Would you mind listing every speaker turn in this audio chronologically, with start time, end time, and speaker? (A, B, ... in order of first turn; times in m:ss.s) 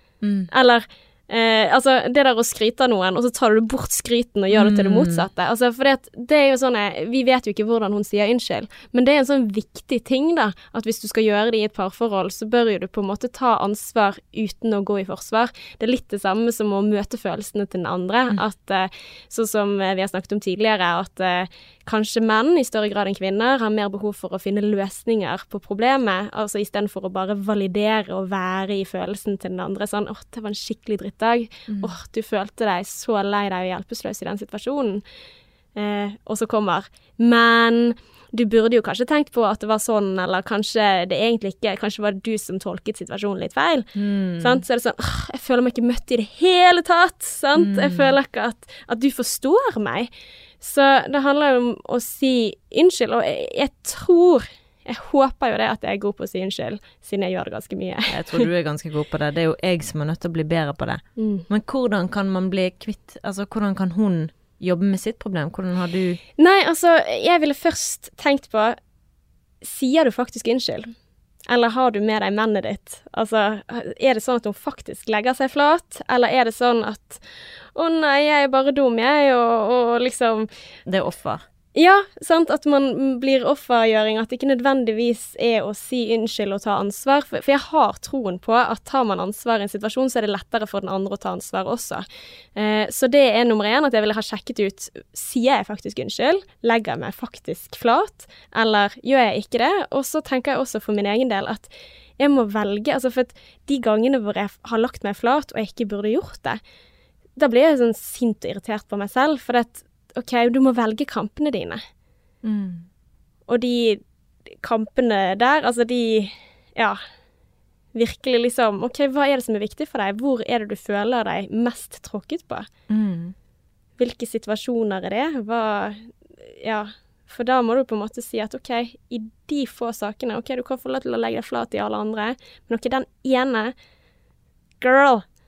0:00.2-0:00.5 A
0:00.5-0:35.0 B
0:04.5-0:05.3 A
0:35.8-0:50.1 B
0:44.0-0:44.6 A
0:47.6-0:48.1 A
0:50.6-0:58.5 B
0:58.1-1:06.2 A
1:01.2-1:01.5 B
1:06.4-1:08.8 B
1:09.6-1:10.9 B
1:11.5-1:20.5 B
1:20.9-1:21.4 A
1:21.8-1:46.6 B
1:47.4-1:51.8 B
1:52.4-1:52.9 A
1:53.5-1:54.0 B
1:54.6-1:57.0 B
1:57.9-2:02.7 B
2:02.9-2:03.3 A
2:04.0-2:13.7 B
2:14.8-2:15.2 B